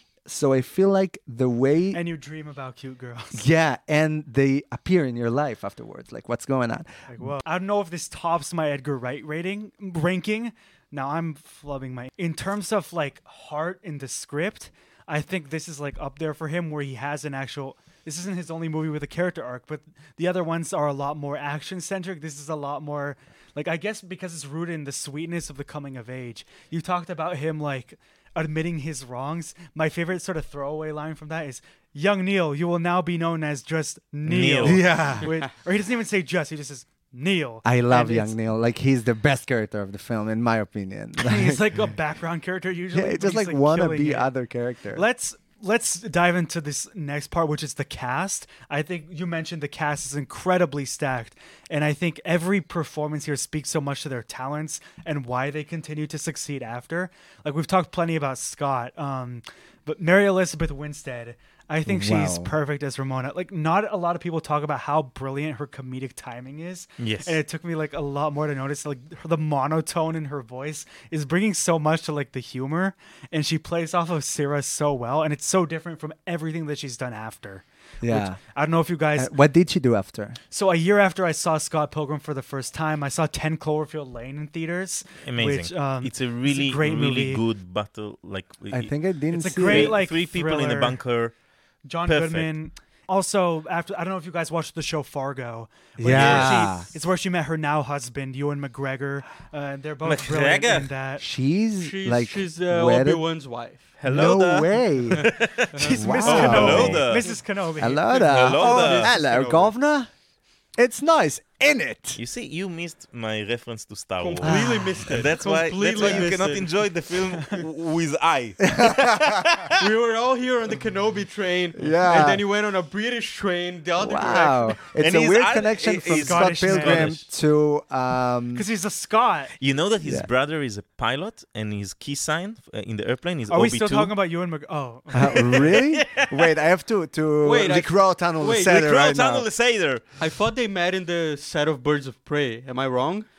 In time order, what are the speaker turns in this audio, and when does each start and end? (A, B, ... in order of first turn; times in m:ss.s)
0:00.2-0:02.0 A
0:01.9-0:03.4 B
0:03.3-0:07.3 A
0:07.1-0:38.4 B
0:34.2-0:34.9 C
0:34.6-0:35.2 A
0:37.6-0:41.6 A
0:41.2-0:44.3 B
0:42.9-0:45.0 A
0:44.9-1:19.3 B
1:01.8-1:02.5 A
1:07.0-1:07.4 C
1:18.0-1:18.4 A
1:19.2-1:20.4 A
1:20.5-1:27.4 B
1:25.2-1:28.9 C
1:28.7-1:30.0 A
1:29.3-1:31.0 B
1:29.6-1:31.3 C
1:31.8-1:41.2 B
1:32.0-1:32.5 C
1:36.0-1:36.9 A
1:36.1-1:36.9 C
1:40.0-1:40.9 C
1:41.2-1:43.2 A
1:41.8-1:43.9 D
1:44.0-1:47.3 C
1:44.0-1:47.1 A
1:45.7-1:46.7 D
1:45.8-1:48.2 B
1:47.8-1:50.1 A
1:48.3-1:49.1 C
1:48.3-1:49.7 D
1:50.8-1:52.2 A
1:52.2-1:59.8 C
1:54.2-1:56.7 D
1:54.4-1:55.0 A
1:58.7-1:59.4 A
1:59.8-2:04.8 D
2:01.8-2:02.4 A
2:04.0-2:08.6 A
2:05.0-2:07.2 C
2:06.1-2:07.2 B
2:08.5-2:09.5 B
2:09.6-2:14.1 C
2:10.0-2:10.3 A
2:13.5-2:15.7 B
2:15.1-2:19.5 A
2:15.6-2:16.5 C
2:17.4-2:18.8 D
2:18.7-2:20.0 C
2:20.2-2:23.3 D